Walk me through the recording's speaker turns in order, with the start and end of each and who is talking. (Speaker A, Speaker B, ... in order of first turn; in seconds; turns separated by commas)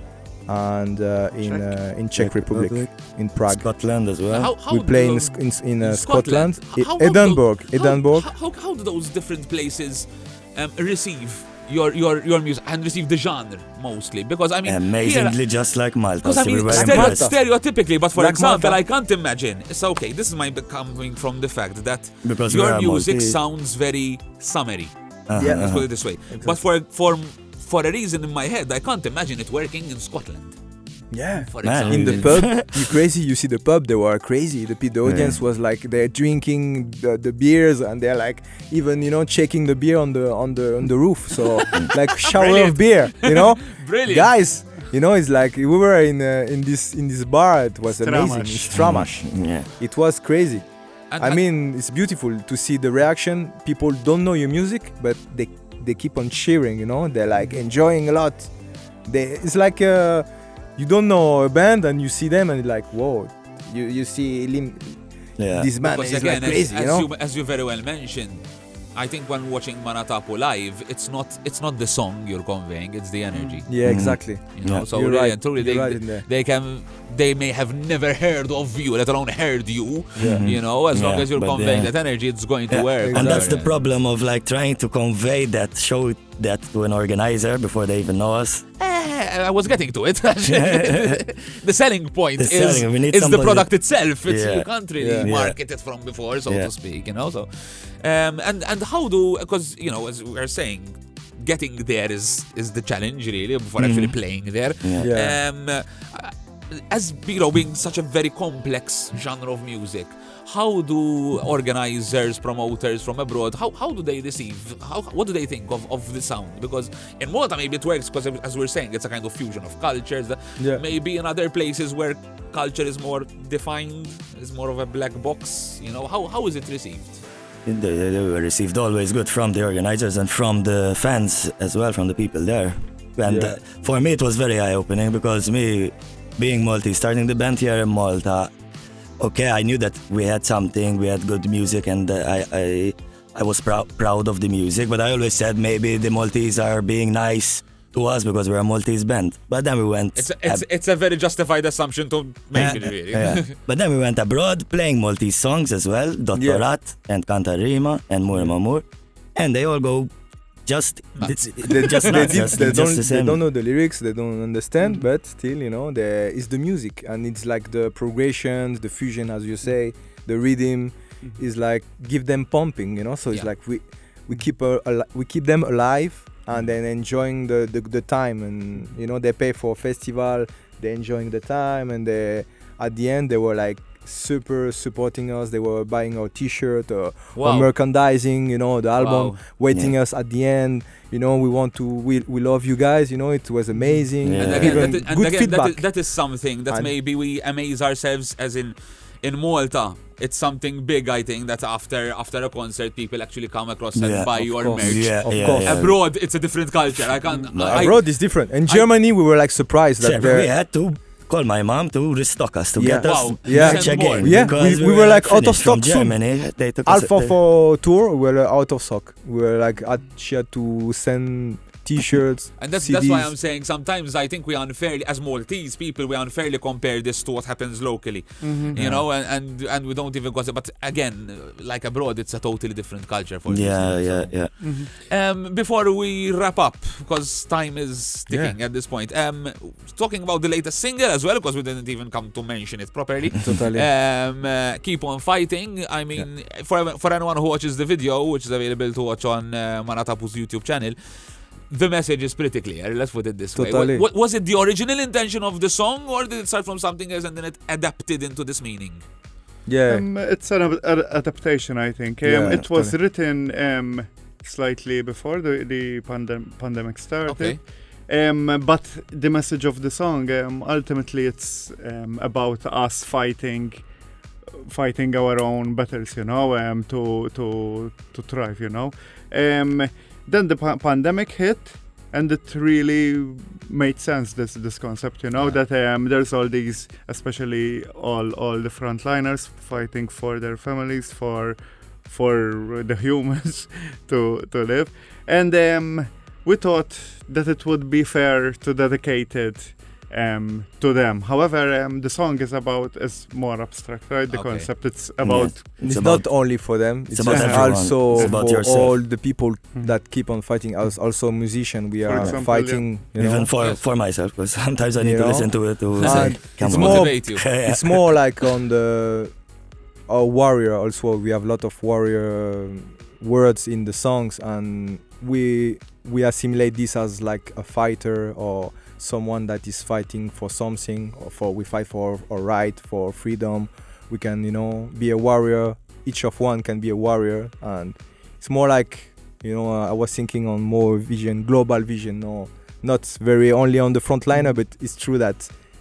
Speaker A: 0.4-3.6, Speaker B: 1.4-1.8, Speaker C: 2.1-4.5, Speaker D: 4.3-15.4, Speaker A: 4.7-8.3, Speaker C: 14.6-17.3, Speaker D: 16.2-30.6, Speaker A: 16.7-18.8, Speaker C: 22.2-23.4, Speaker C: 25.3-25.9, Speaker A: 25.4-26.6, Speaker A: 31.1-58.5, Speaker D: 31.4-32.4, Speaker C: 31.6-32.9, Speaker C: 35.0-35.4, Speaker D: 41.7-44.3, Speaker B: 47.9-48.8, Speaker C: 48.7-49.7, Speaker D: 51.1-51.4, Speaker A: 59.0-67.1, Speaker C: 65.4-65.7, Speaker D: 65.8-68.4, Speaker D: 68.9-83.8, Speaker B: 73.3-73.6, Speaker A: 73.7-76.2, Speaker C: 73.8-74.9, Speaker A: 80.2-80.4, Speaker C: 80.2-88.6, Speaker A: 83.0-83.8, Speaker D: 88.8-127.2, Speaker C: 90.5-91.2, Speaker C: 92.4-95.6, Speaker A: 95.0-95.3, Speaker C: 103.8-104.2, Speaker C: 104.8-105.1, Speaker A: 105.0-105.4, Speaker C: 127.6-138.5, Speaker A: 133.2-133.6, Speaker C: 139.2-150.6, Speaker D: 150.1-153.6, Speaker C: 152.5-160.1, Speaker A: 156.3-156.6, Speaker C: 160.7-163.4, Speaker D: 161.2-162.2, Speaker A: 161.6-196.0, Speaker D: 187.3-187.7, Speaker D: 188.9-189.4, Speaker C: 189.7-189.9, Speaker B: 193.7-194.0, Speaker C: 194.2-195.0, Speaker D: 194.4-208.9, Speaker A: 196.7-196.9, Speaker C: 203.9-206.0, Speaker A: 204.3-205.9, Speaker C: 207.5-207.9, Speaker A: 207.6-210.5, Speaker C: 210.0-217.3, Speaker A: 212.8-223.3, Speaker D: 213.0-214.6, Speaker D: 222.6-259.0, Speaker B: 228.4-228.8, Speaker A: 228.8-229.0, Speaker C: 233.5-234.5, Speaker B: 234.6-234.9, Speaker A: 238.3-238.6, Speaker A: 243.4-243.9, Speaker A: 253.6-254.0, Speaker A: 259.6-260.0, Speaker B: 259.9-273.9, Speaker A: 262.2-263.0, Speaker D: 267.2-267.6, Speaker B: 274.7-306.1, Speaker D: 304.3-304.7, Speaker C: 305.2-309.0, Speaker A: 305.8-313.5, Speaker B: 307.2-308.4, Speaker B: 312.0-312.9, Speaker C: 312.1-312.4, Speaker C: 313.1-318.2, Speaker D: 313.6-313.8, Speaker A: 315.0-319.4, Speaker D: 316.1-317.5, Speaker A: 320.1-345.5